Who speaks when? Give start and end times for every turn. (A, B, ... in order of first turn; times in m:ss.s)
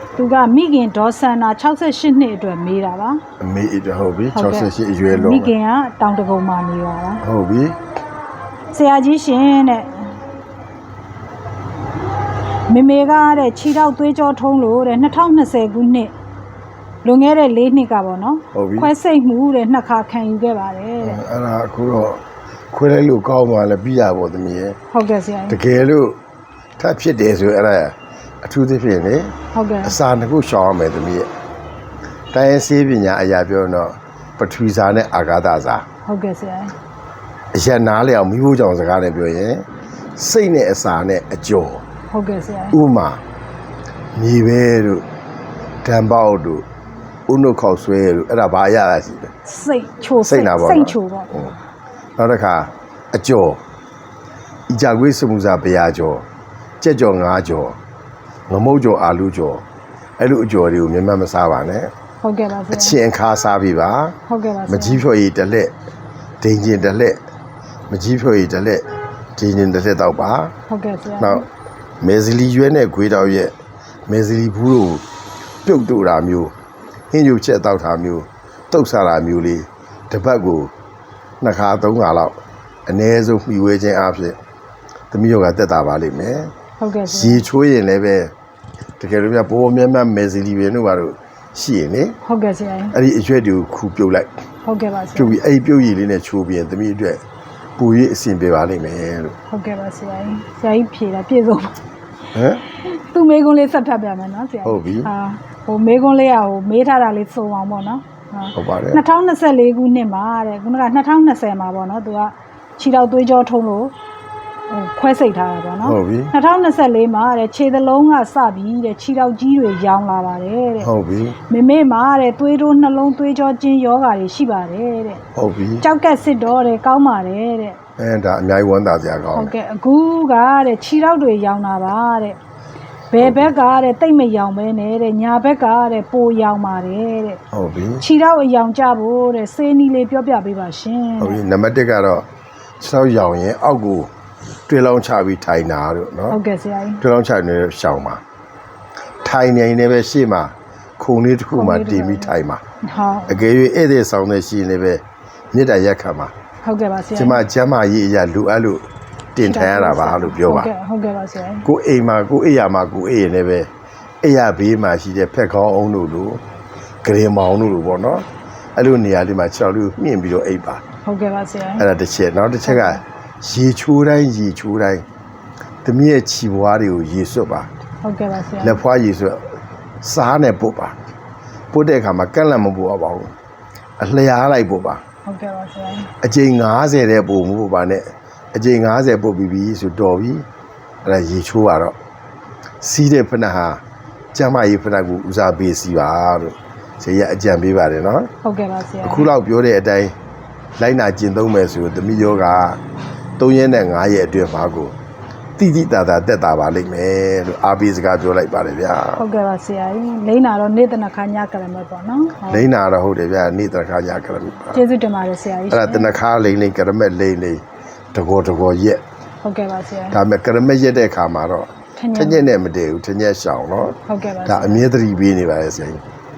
0:00.2-0:03.2 A
0:03.4-0:05.5 B
0:04.3-0:07.2 A
0:07.2-0:07.8 B
0:08.7-0:10.1 A
0:12.7-0:16.1 A
0:17.0-0:21.2 A
0:18.5-0:18.9 B
0:21.0-0:24.8 B
0:24.9-0:25.6 A
0:25.5-0:26.2 B
0:26.8-0:31.3 B
0:29.5-0:30.0 A
0:32.3-0:35.9 B
0:36.0-0:36.7 A
0:37.5-0:39.6 B
0:40.2-0:41.8 B
0:42.1-0:42.8 A
0:42.7-0:43.2 B
0:44.2-0:45.0 B
0:45.8-0:46.7 B
0:47.3-0:49.3 B
0:49.4-0:51.3 A
0:50.2-0:51.5 B
0:52.2-0:53.6 B
0:54.7-0:56.2 B
0:56.8-0:57.8 B
0:58.5-0:59.6 B
1:00.2-1:01.9 B
1:02.2-1:03.0 A
1:02.7-1:04.2 B
1:04.3-1:05.0 A
1:04.7-1:05.7 B
1:06.4-1:07.2 B
1:07.9-1:10.5 B
1:10.7-1:11.4 A
1:11.2-1:11.4 B
1:12.0-1:13.5 B
1:14.1-1:15.0 B
1:15.6-1:16.5 B
1:17.1-1:20.7 B
1:21.4-1:24.4 B
1:25.1-1:26.5 B
1:26.8-1:27.4 A
1:27.1-1:28.3 B
1:29.0-1:32.2 B
1:32.2-1:33.0 A
1:32.9-1:34.3 B
1:34.6-1:35.4 A
1:35.2-1:37.2 B
1:37.8-1:39.4 B
1:39.5-1:41.8 A
1:42.3-1:42.6 B
1:42.7-1:53.9 A
1:44.6-1:45.1 B
1:48.6-1:49.0 B
1:54.7-2:00.9 A
1:55.8-1:56.3 B
2:00.8-2:01.4 B
2:01.5-2:05.2 A
2:05.4-2:05.8 B
2:05.8-2:07.8 A
2:08.0-2:09.5 B
2:09.3-2:12.4 A
2:13.1-2:17.4 A
2:13.2-2:13.5 B
2:17.5-2:18.0 B
2:18.0-2:21.4 A
2:21.2-2:22.3 B
2:22.8-2:24.1 B
2:24.7-2:26.4 B
2:26.3-2:27.0 A
2:27.0-2:28.2 B
2:29.2-2:32.6 B
2:31.5-2:33.4 A
2:33.3-2:36.3 B
2:36.6-2:37.4 A
2:37.2-2:40.7 B
2:39.4-2:41.7 A
2:41.6-2:43.7 B
2:44.2-2:46.4 B
2:47.0-2:50.8 B
2:51.0-2:51.9 A
2:51.8-2:55.0 B
2:52.6-2:53.0 A
2:55.8-2:57.7 B
2:58.0-2:58.8 A
2:58.6-3:01.0 B
3:01.7-3:03.3 B
3:04.0-3:05.0 B
3:05.3-3:06.1 A
3:06.2-3:10.5 B
3:11.0-3:12.0 B
3:12.8-3:13.8 B
3:14.3-3:18.3 B
3:18.4-3:19.3 A
3:19.0-3:20.2 B
3:20.8-3:22.8 B
3:23.4-3:25.0 B
3:25.6-3:29.2 B
3:29.2-3:32.7 A
3:32.5-3:34.8 B
3:34.7-3:36.2 A
3:35.7-3:39.0 B
3:39.4-3:40.2 A
3:40.1-3:46.0 B
3:42.0-3:42.5 A
3:44.1-3:44.8 A